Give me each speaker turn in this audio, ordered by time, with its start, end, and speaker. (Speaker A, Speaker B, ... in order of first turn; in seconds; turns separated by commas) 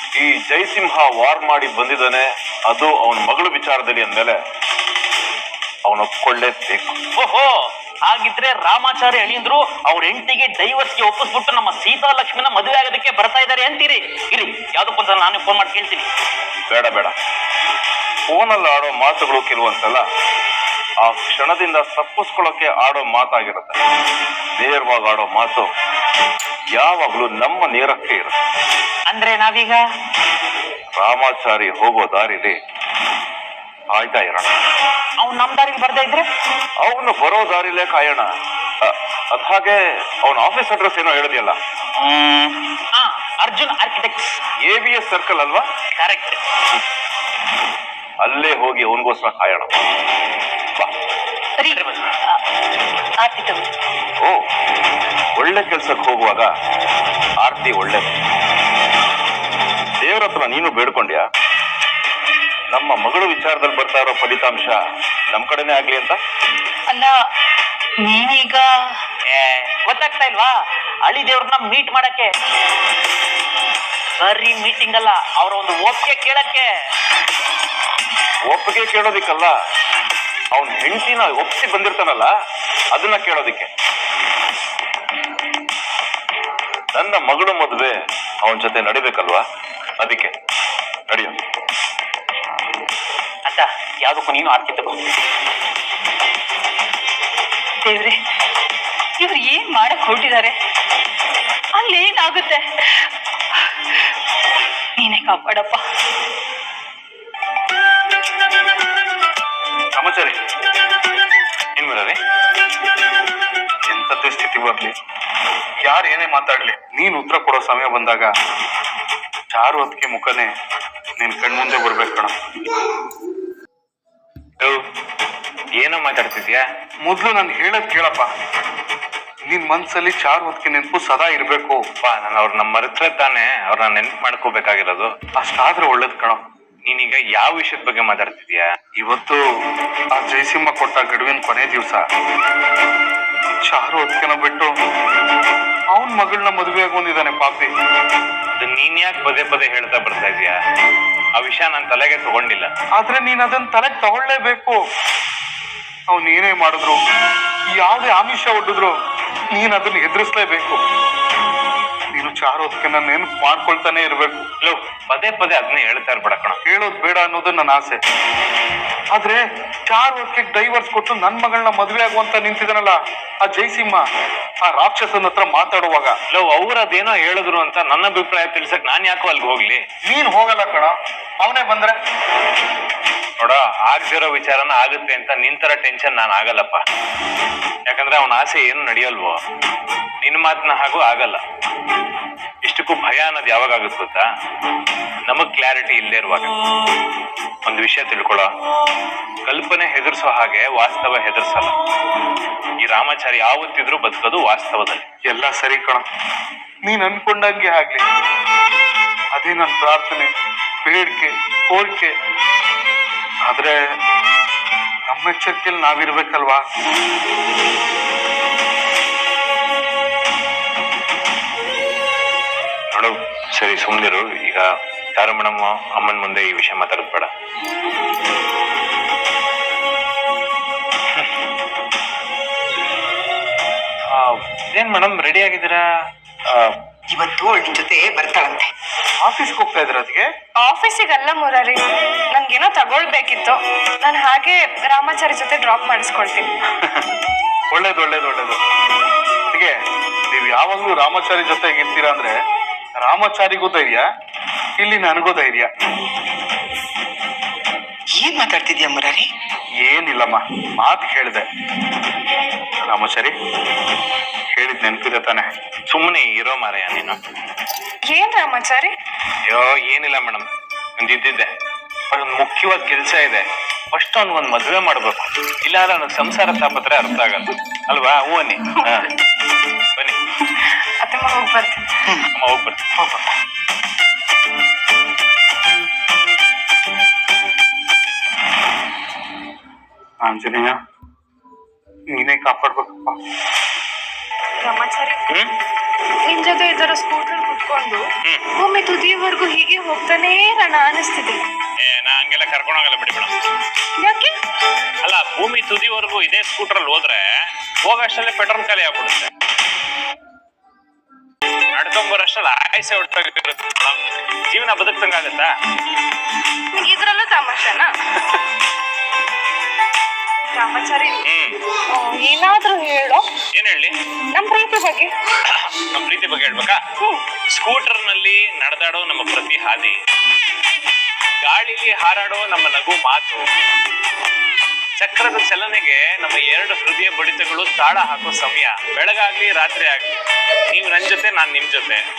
Speaker A: 0.2-4.3, Speaker A: 5.9-7.0, Speaker B: 7.2-7.5, Speaker B: 8.1-16.1, Speaker A: 16.7-17.1, Speaker A: 18.3-20.0, Speaker A: 21.0-23.8, Speaker A: 24.6-25.7, Speaker A: 26.7-28.3, Speaker B: 29.1-29.8, Speaker A: 31.0-32.5, Speaker A: 33.9-34.5, Speaker B: 35.2-36.2, Speaker A: 36.8-38.2, Speaker A: 38.8-41.6, Speaker B: 42.0-44.3, Speaker A: 44.6-45.6, Speaker B: 46.0-46.4, Speaker A: 48.2-49.7, Speaker C: 51.6-52.4, Speaker B: 51.7-52.0, Speaker C: 53.2-53.6, Speaker A: 55.4-56.5, Speaker A: 57.4-58.1, Speaker A: 60.0-61.2, Speaker A: 62.7-64.7, Speaker A: 65.3-66.2, Speaker C: 66.9-67.2, Speaker C: 68.0-68.7, Speaker B: 69.3-70.5, Speaker B: 71.1-72.3, Speaker B: 74.2-76.6, Speaker A: 78.5-79.5, Speaker A: 80.5-82.3, Speaker A: 82.9-83.7, Speaker A: 86.9-87.9, Speaker A: 88.4-89.4, Speaker A: 90.0-90.3, Speaker A: 91.1-91.3, Speaker B: 93.5-95.0, Speaker C: 97.8-98.2, Speaker C: 99.2-100.5, Speaker C: 101.8-103.1, Speaker C: 105.0-105.8, Speaker D: 109.9-110.3, Speaker E: 111.8-112.2, Speaker D: 113.9-114.9, Speaker D: 115.9-118.3, Speaker D: 119.5-120.5, Speaker D: 121.2-122.3, Speaker E: 125.8-126.6, Speaker D: 127.0-128.3, Speaker D: 129.5-131.8, Speaker E: 132.0-135.1, Speaker D: 135.4-136.4, Speaker E: 136.9-138.7, Speaker D: 139.0-139.4, Speaker D: 140.1-142.0, Speaker D: 143.6-144.7, Speaker D: 145.9-147.7, Speaker E: 148.5-150.5, Speaker E: 151.4-152.7, Speaker D: 153.0-154.8, Speaker D: 156.1-157.0, Speaker D: 157.7-158.9, Speaker D: 159.5-160.8, Speaker D: 162.1-164.4, Speaker E: 164.6-166.6, Speaker D: 166.6-168.0, Speaker D: 169.1-174.0, Speaker D: 174.6-176.2, Speaker E: 176.3-179.8, Speaker D: 180.0-181.9, Speaker E: 183.4-186.8, Speaker E: 187.9-189.3, Speaker E: 190.2-191.4, Speaker E: 192.6-194.2, Speaker E: 195.3-196.5, Speaker E: 197.7-198.5, Speaker E: 199.4-201.7, Speaker E: 202.8-205.0, Speaker D: 205.2-206.0, Speaker D: 206.8-208.0, Speaker D: 209.3-210.3, Speaker D: 210.8-212.1, Speaker D: 213.4-213.7, Speaker D: 215.1-216.6, Speaker E: 222.9-227.3, Speaker E: 234.1-235.8, Speaker E: 236.5-236.7, Speaker F: 237.1-238.7, Speaker D: 239.2-240.3, Speaker G: 240.6-241.8, Speaker G: 242.3-246.5, Speaker D: 247.7-248.6, Speaker D: 250.3-252.3, Speaker D: 252.9-254.0, Speaker D: 254.8-255.7, Speaker F: 258.2-259.2, Speaker D: 259.8-261.4, Speaker D: 262.8-263.3, Speaker D: 264.5-265.5, Speaker E: 265.9-267.2, Speaker G: 268.1-268.9, Speaker E: 269.5-270.4, Speaker E: 271.0-271.5, Speaker E: 272.1-273.4, Speaker E: 273.9-279.1, Speaker G: 281.0-281.9, Speaker E: 282.3-283.2, Speaker D: 290.2-290.8, Speaker D: 292.1-293.1, Speaker G: 294.6-295.2, Speaker G: 296.3-298.0, Speaker G: 298.6-301.4, Speaker E: 301.8-303.3, Speaker G: 304.0-304.3, Speaker E: 305.0-307.2, Speaker E: 307.9-309.3, Speaker E: 311.8-314.0, Speaker E: 314.5-315.5, Speaker G: 316.7-317.9, Speaker G: 320.6-321.2, Speaker E: 321.3-321.6, Speaker G: 321.9-323.2, Speaker E: 323.6-323.9, Speaker G: 324.3-325.1, Speaker E: 325.6-326.8, Speaker E: 327.5-329.9, Speaker E: 331.4-333.4, Speaker E: 335.0-340.1, Speaker E: 340.7-342.0